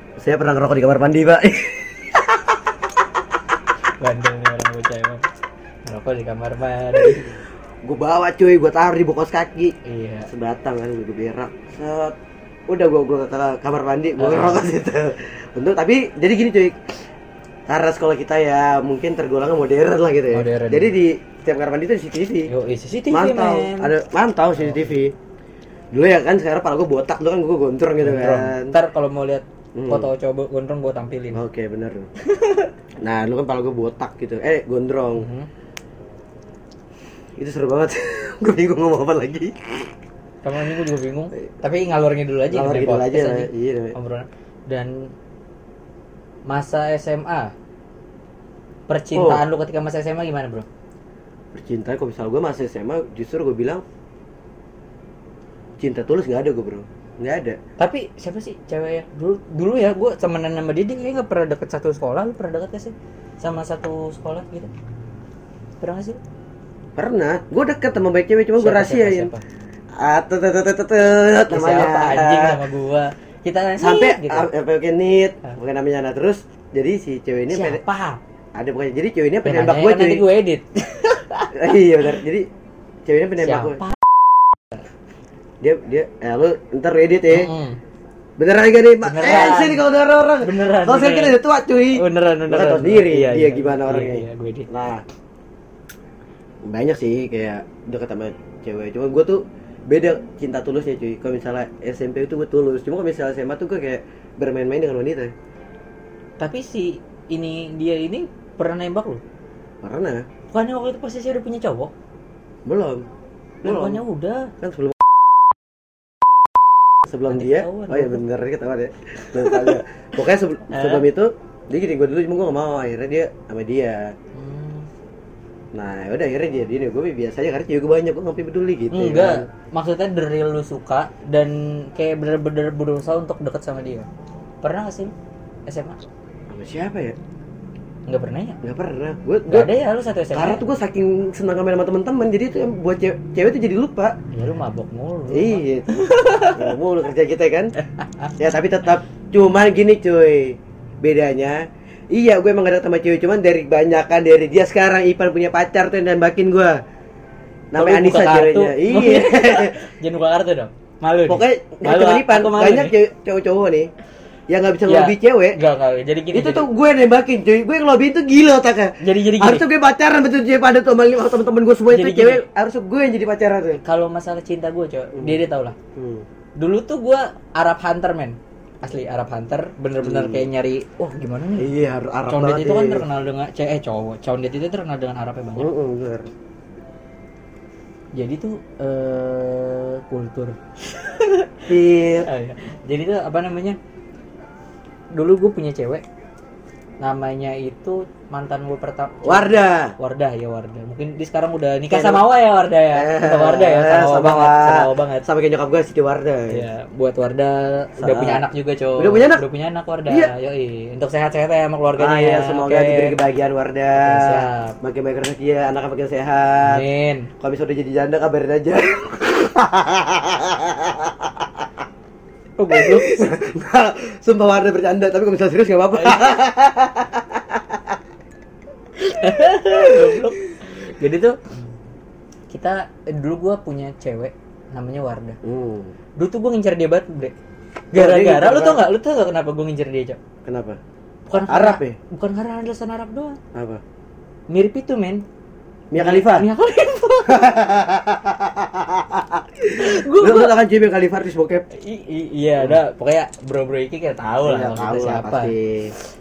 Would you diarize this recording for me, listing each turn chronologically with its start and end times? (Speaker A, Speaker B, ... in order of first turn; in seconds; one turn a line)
Speaker A: 0.2-2.2
Speaker B: 4.0-5.2
Speaker B: 5.9-7.4
Speaker A: 7.0-7.3
Speaker A: 7.8-9.7
Speaker B: 9.8-10.3
Speaker A: 10.3-12.2
Speaker A: 12.7-17.0
Speaker B: 14.2-14.6
Speaker A: 17.7-22.5
Speaker B: 20.3-20.9
Speaker B: 22.5-23.9
Speaker A: 23.1-25.1
Speaker B: 24.6-24.9
Speaker A: 25.9-28.8
Speaker B: 28.0-31.4
Speaker A: 29.7-30.1
Speaker A: 31.3-32.1
Speaker B: 32.2-32.7
Speaker A: 33.0-35.3
Speaker B: 35.2-35.5
Speaker A: 37.4-39.9
Speaker B: 40.4-45.1
Speaker A: 42.5-44.0
Speaker B: 46.5-47.5
Speaker B: 48.9-50.7
Speaker A: 49.1-49.4
Speaker A: 51.5-53.8
Speaker A: 55.8-57.6
Speaker B: 57.8-64.7
Speaker B: 65.8-66.2
Speaker A: 67.0-69.3
Speaker B: 68.6-69.4
Speaker A: 70.0-72.6
Speaker B: 71.5-74.5
Speaker A: 73.8-77.8
Speaker B: 77.5-78.2
Speaker A: 78.5-80.2
Speaker B: 79.5-81.5
Speaker A: 81.5-82.5
Speaker A: 83.1-83.8
Speaker B: 83.4-84.0
Speaker A: 85.6-87.5
Speaker B: 87.3-87.8
Speaker A: 88.4-95.0
Speaker B: 89.0-89.8
Speaker B: 90.4-91.4
Speaker B: 91.9-94.7
Speaker A: 96.7-105.3
Speaker B: 106.4-109.2
Speaker A: 109.8-110.2
Speaker B: 110.5-111.9
Speaker A: 112.7-113.1
Speaker A: 113.6-114.0
Speaker B: 113.6-114.5
Speaker A: 114.6-115.1
Speaker A: 117.0-124.1
Speaker B: 117.3-118.2
Speaker B: 119.2-119.8
Speaker B: 120.7-121.1
Speaker B: 124.3-124.9
Speaker A: 125.7-129.5
Speaker B: 128.9-134.1
Speaker B: 134.6-135.1
Speaker B: 135.7-136.0
Speaker A: 136.5-137.2
Speaker B: 138.1-138.6
Speaker A: 138.6-139.7
Speaker B: 139.5-140.6
Speaker A: 140.3-144.2
Speaker B: 144.3-146.7
Speaker A: 145.3-147.7
Speaker B: 147.9-148.3
Speaker A: 148.4-156.8
Speaker A: 157.7-159.8
Speaker B: 157.8-162.9
Speaker A: 161.3-163.9
Speaker A: 164.5-165.6
Speaker B: 164.9-166.7
Speaker A: 166.3-173.8
Speaker B: 169.0-169.7
Speaker B: 171.9-172.4
Speaker B: 173.8-175.8
Speaker A: 175.2-175.4
Speaker A: 175.9-176.2
Speaker B: 176.6-181.7
Speaker A: 180.0-180.5
Speaker A: 181.6-183.1
Speaker B: 182.3-185.7
Speaker A: 185.6-186.3
Speaker B: 188.2-191.6
Speaker A: 191.7-192.3
Speaker B: 192.2-193.8
Speaker B: 195.1-196.0
Speaker B: 197.0-205.3
Speaker A: 199.2-199.9
Speaker A: 201.9-202.3
Speaker A: 202.9-206.6
Speaker B: 206.5-213.2
Speaker A: 208.0-208.4
Speaker A: 209.0-209.4
Speaker A: 212.0-216.8
Speaker B: 213.9-214.8
Speaker B: 216.6-217.3
Speaker A: 217.4-221.7
Speaker B: 222.6-223.3
Speaker A: 222.7-228.0
Speaker B: 225.9-226.3
Speaker B: 229.0-231.7
Speaker A: 229.7-230.3
Speaker B: 232.5-235.4
Speaker A: 235.4-235.9
Speaker B: 236.2-237.3
Speaker A: 237.9-238.8
Speaker B: 237.9-240.2
Speaker A: 240.4-240.8
Speaker B: 241.3-243.4
Speaker A: 241.5-242.0
Speaker A: 243.5-243.8
Speaker B: 244.5-245.2
Speaker A: 245.9-246.5
Speaker B: 246.0-247.5
Speaker A: 247.3-251.7
Speaker B: 249.7-250.6
Speaker B: 251.7-255.5
Speaker A: 254.4-255.9